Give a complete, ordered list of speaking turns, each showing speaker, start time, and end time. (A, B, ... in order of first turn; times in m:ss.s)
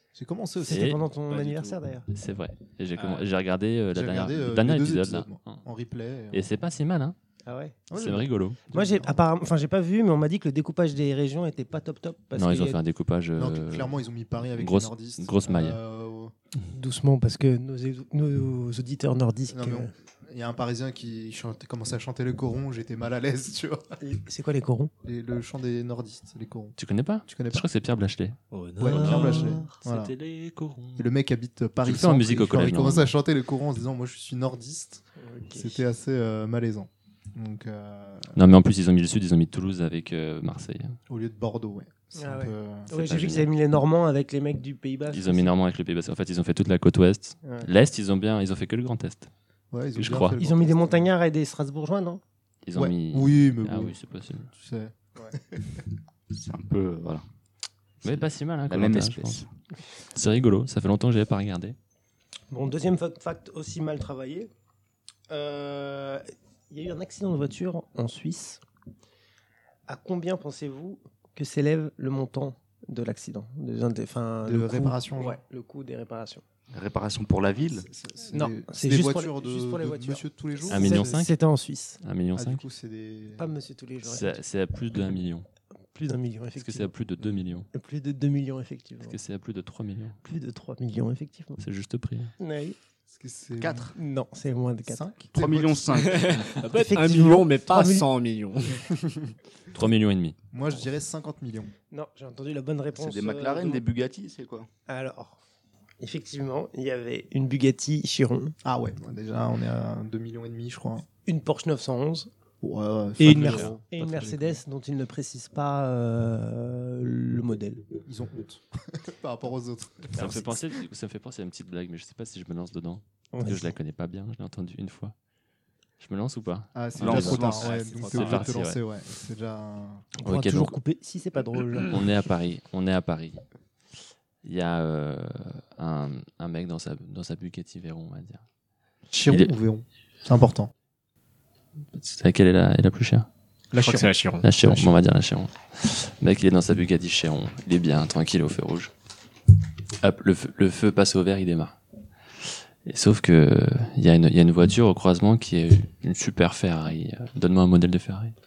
0:00.1-0:01.0 A
0:00.6-0:02.1 B
0:00.6-0:01.0 C
0:01.3-0:01.8 D
0:02.1-0:05.6 C
0:03.0-0:03.3 D
0:03.9-0:06.5 A
0:06.3-0:07.2 C
0:07.4-0:07.8 B
0:07.9-0:09.2 A
0:07.9-0:08.6 C
0:08.7-0:12.8 B
0:12.4-0:13.9 C
0:13.4-0:16.3 A
0:14.6-0:15.8 C
0:16.7-0:19.9 B
0:19.5-0:24.0 A
0:24.0-0:24.9 B
0:25.0-0:27.6 A
0:26.8-0:28.4 C
0:28.5-0:29.5 D
0:28.8-0:30.1 A
0:28.9-0:31.1 C
0:28.9-0:29.7 B
0:31.0-0:38.4 A
0:31.8-0:33.1 C
0:35.2-0:35.8 B
0:38.4-0:41.0 C
0:41.1-0:42.9 A
0:42.2-0:45.5 B
0:42.9-0:43.5 C
0:45.1-0:49.3 C
0:47.4-0:47.7 B
0:49.7-0:51.1 A
0:49.9-0:50.4 C
0:50.4-0:52.2 B
0:52.6-0:54.5 C
0:52.7-0:54.0 A
0:54.5-0:55.8 A
0:56.3-0:57.2 E
0:58.0-0:59.4 C
0:58.0-0:59.5 E
1:00.1-1:01.8 C
1:02.5-1:04.5 B
1:05.3-1:08.6 B
1:09.9-1:16.4 B
1:14.4-1:15.4 A
1:16.7-1:17.8 E
1:17.8-1:21.2 A
1:18.3-1:22.0 B
1:20.7-1:21.4 C
1:22.0-1:22.6 C
1:22.3-1:23.5 A
1:23.4-1:24.4 B
1:24.0-1:25.5 C
1:25.9-1:26.9 B
1:26.6-1:27.7 C
1:27.7-1:29.2 B
1:29.0-1:30.2 C
1:30.2-1:31.6 B
1:31.6-1:32.3 C
1:32.4-1:32.8 B
1:33.1-1:33.9 A
1:33.6-1:33.9 E
1:33.9-1:35.1 B
1:34.8-1:36.2 A
1:35.3-1:36.6 E
1:36.1-1:39.3 D
1:36.6-1:38.1 B
1:39.7-1:40.4 C
1:40.5-1:41.7 A
1:41.9-1:43.8 B
1:43.0-1:44.7 E
1:44.9-1:45.4 B
1:46.0-1:48.5 B
1:48.6-1:51.0 A
1:51.2-1:52.3 B
1:52.6-1:54.6 A
1:53.2-1:57.8 B
1:53.2-1:53.8 C
1:58.0-2:00.6 A
2:00.1-2:05.1 C
2:03.3-2:03.7 B
2:06.0-2:08.8 C
2:06.7-2:10.1 A
2:07.0-2:08.6 D
2:10.2-2:12.0 B
2:10.2-2:10.8 C
2:11.9-2:13.4 C
2:14.4-2:18.4 C
2:19.1-2:20.7 A
2:19.3-2:19.5 C
2:21.9-2:23.3 C
2:23.7-2:24.1 A
2:23.8-2:24.5 D
2:24.4-2:28.9 C
2:24.6-2:24.9 A
2:30.0-2:31.8 C
2:32.8-2:38.3 C